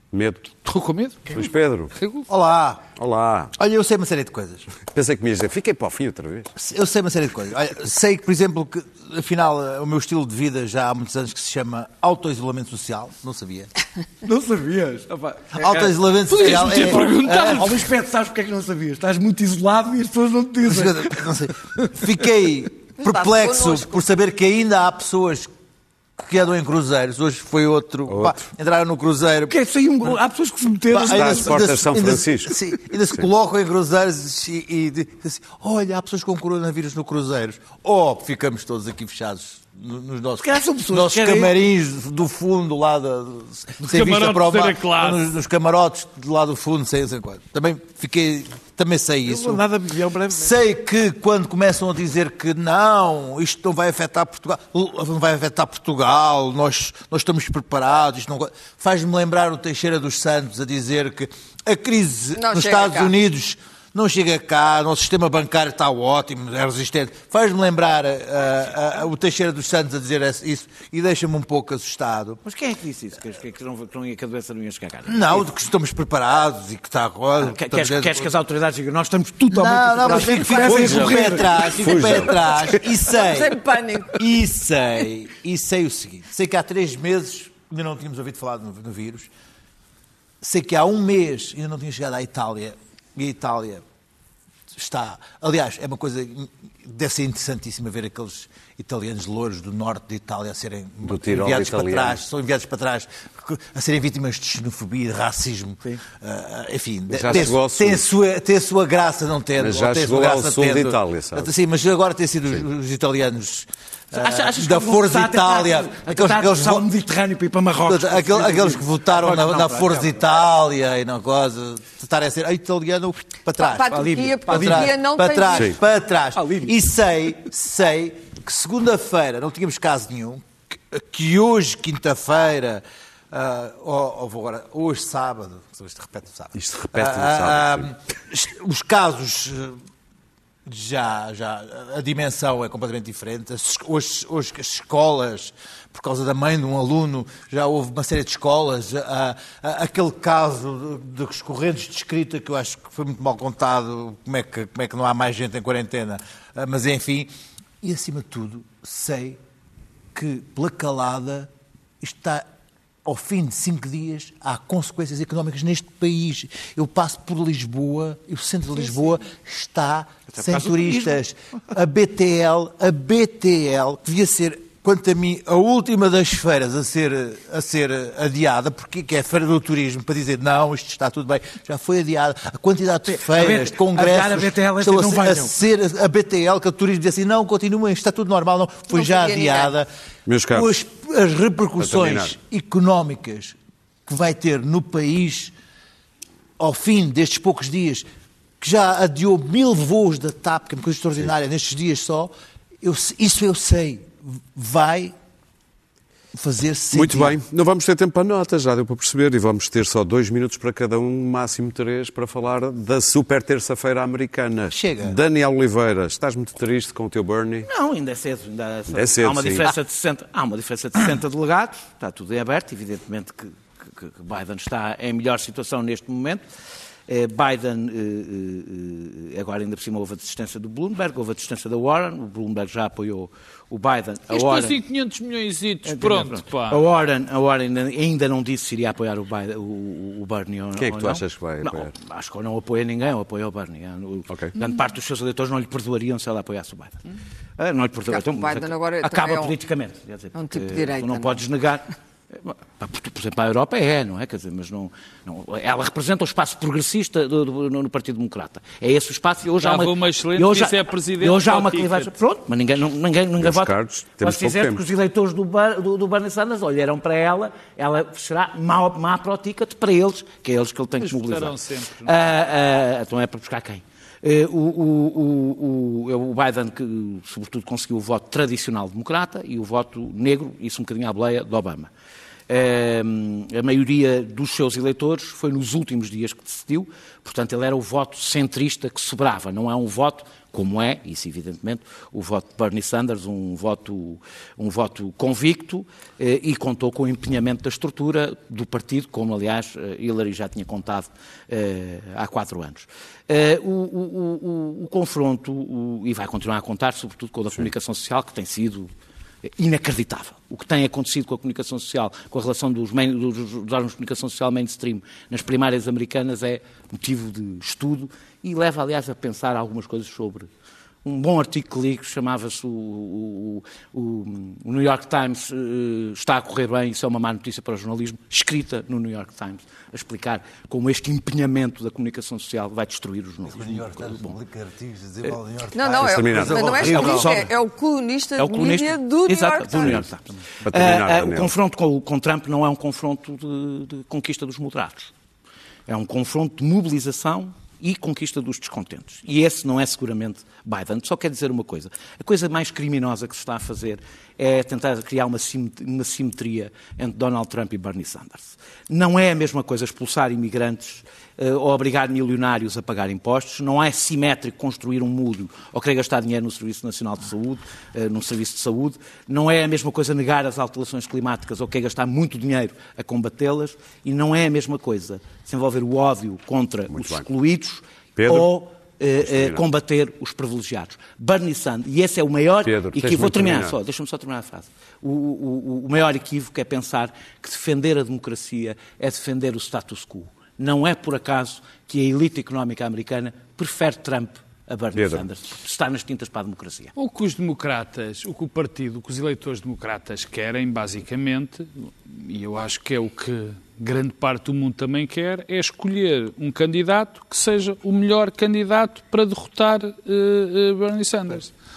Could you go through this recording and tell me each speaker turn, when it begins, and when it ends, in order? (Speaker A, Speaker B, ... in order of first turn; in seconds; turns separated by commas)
Speaker A: 0.1-0.5, Speaker B: 0.6-1.4, Speaker A: 1.3-1.9, Speaker B: 2.0-2.3, Speaker C: 2.3-2.8, Speaker A: 3.0-3.5, Speaker C: 3.5-4.7, Speaker A: 4.8-6.5, Speaker C: 6.5-13.7, Speaker D: 14.2-21.5, Speaker C: 15.5-17.5, Speaker B: 16.3-17.8, Speaker C: 20.6-25.5, Speaker E: 23.0-24.0, Speaker C: 26.2-30.2, Speaker A: 28.1-28.4, Speaker D: 29.5-31.7, Speaker C: 30.9-49.6, Speaker A: 31.0-32.5, Speaker D: 40.4-41.5, Speaker B: 43.8-45.2, Speaker D: 49.2-50.5, Speaker C: 50.3-72.4, Speaker E: 62.4-63.1, Speaker D: 72.4-75.5, Speaker C: 75.0-78.3, Speaker D: 77.4-82.3, Speaker C: 79.5-83.6, Speaker A: 80.4-82.8, Speaker E: 83.0-84.2, Speaker C: 84.1-89.3, Speaker C: 90.4-93.8, Speaker C: 94.7-116.9, Speaker A: 101.0-102.2, Speaker A: 107.1-108.0, Speaker A: 109.6-111.5, Speaker D: 114.1-120.2, Speaker C: 117.8-139.8, Speaker E: 123.6-125.8, Speaker D: 123.9-124.9, Speaker D: 126.3-126.8, Speaker A: 136.5-137.9, Speaker C: 140.7-157.3, Speaker C: 157.8-159.4, Speaker C: 160.1-162.4, Speaker C: 163.0-189.9, Speaker D: 170.3-171.2, Speaker D: 183.1-185.6, Speaker E: 188.9-189.7, Speaker A: 190.3-190.7, Speaker C: 190.5-193.6, Speaker A: 191.8-192.3, Speaker C: 194.1-195.5, Speaker C: 196.6-198.1, Speaker C: 198.6-205.1, Speaker C: 206.3-207.3, Speaker A: 206.9-217.7, Speaker C: 214.7-215.2, Speaker D: 217.6-226.4, Speaker A: 218.9-219.7, Speaker D: 227.1-234.8, Speaker B: 234.3-236.9, Speaker D: 235.8-247.0, Speaker A: 240.8-241.9, Speaker A: 244.3-244.5, Speaker D: 247.6-281.9, Speaker E: 248.1-249.6, Speaker E: 250.3-251.4, Speaker B: 259.6-262.1, Speaker A: 263.4-264.8, Speaker B: 271.0-272.1, Speaker D: 282.5-308.9, Speaker D: 309.4-320.5, Speaker D: 321.0-334.3, Speaker C: 333.5-337.4, Speaker E: 335.7-340.0, Speaker A: 336.0-337.2, Speaker D: 336.8-337.4, Speaker D: 338.4-345.1, Speaker A: 339.8-340.1, Speaker A: 340.6-341.5, Speaker D: 345.9-396.9, Speaker A: 376.9-377.2, Speaker A: 378.1-378.5, Speaker A: 379.2-379.6, Speaker A: 382.6-383.8, Speaker A: 394.9-395.2, Speaker B: 396.9-411.5